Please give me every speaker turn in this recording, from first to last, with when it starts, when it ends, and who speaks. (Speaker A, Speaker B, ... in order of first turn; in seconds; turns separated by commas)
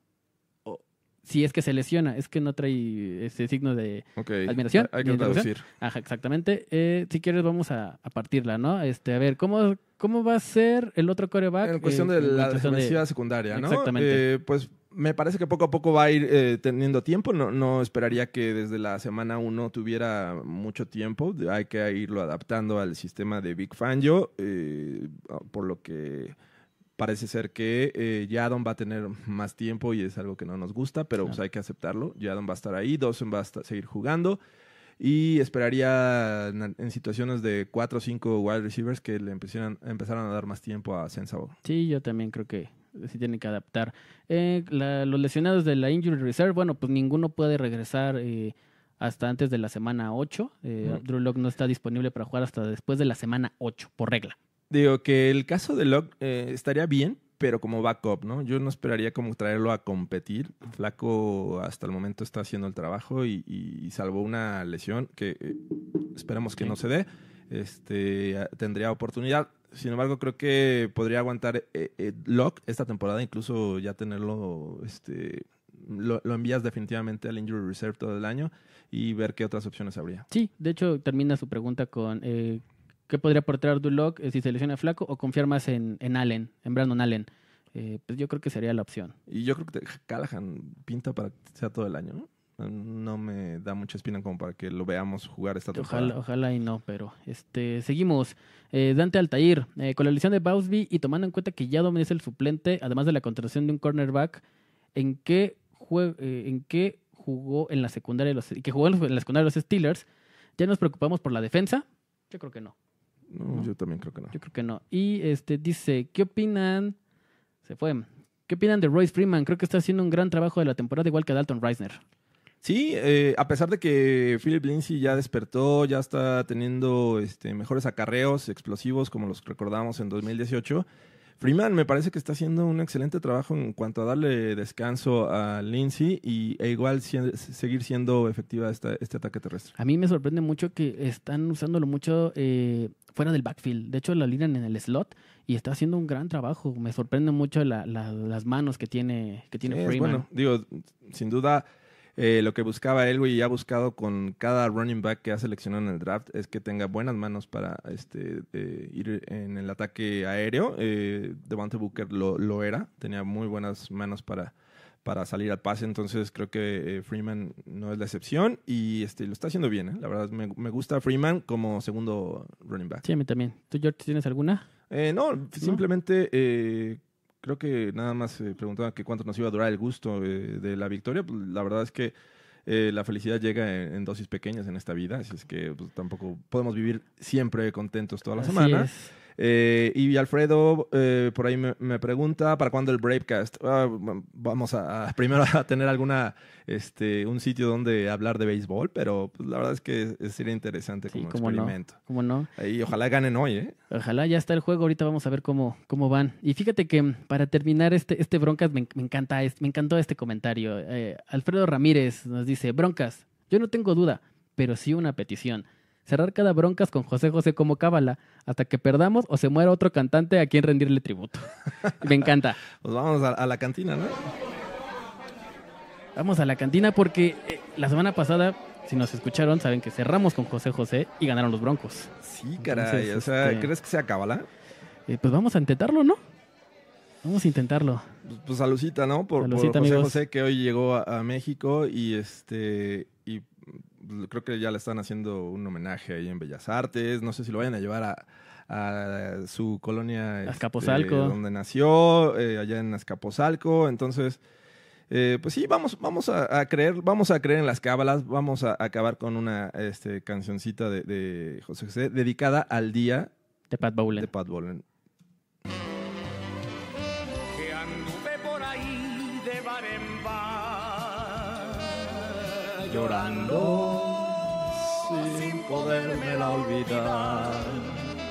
Speaker A: 0.7-13.0, Speaker B: 4.2-5.7, Speaker B: 11.6-26.4, Speaker A: 13.5-14.2, Speaker B: 27.0-34.4, Speaker B: 35.0-41.6, Speaker A: 41.6-54.4, Speaker B: 54.7-80.3, Speaker A: 80.3-89.2, Speaker B: 89.3-96.2, Speaker A: 95.7-104.4, Speaker A: 105.0-110.0, Speaker A: 110.6-112.8, Speaker B: 113.3-114.3, Speaker A: 114.3-117.0, Speaker A: 117.7-122.0, Speaker B: 122.6-130.8, Speaker B: 131.4-139.7, Speaker A: 139.8-150.2, Speaker B: 149.7-151.7, Speaker B: 152.2-164.5, Speaker B: 165.0-173.0, Speaker A: 173.0-174.7, Speaker B: 174.9-182.1, Speaker B: 182.7-202.0, Speaker A: 188.4-189.1, Speaker A: 201.1-202.5, Speaker B: 202.6-203.8, Speaker A: 203.9-222.6, Speaker B: 222.8-224.2, Speaker A: 226.2-233.7, Speaker B: 232.2-234.5, Speaker A: 235.1-236.2, Speaker A: 237.2-238.1, Speaker B: 238.2-254.4, Speaker A: 239.4-240.2, Speaker A: 250.5-251.4, Speaker B: 255.1-263.3, Speaker A: 263.7-264.3, Speaker B: 264.2-264.9, Speaker C: 267.5-272.1, Speaker C: 272.7-274.2, Speaker B: 272.9-278.0, Speaker C: 275.1-278.0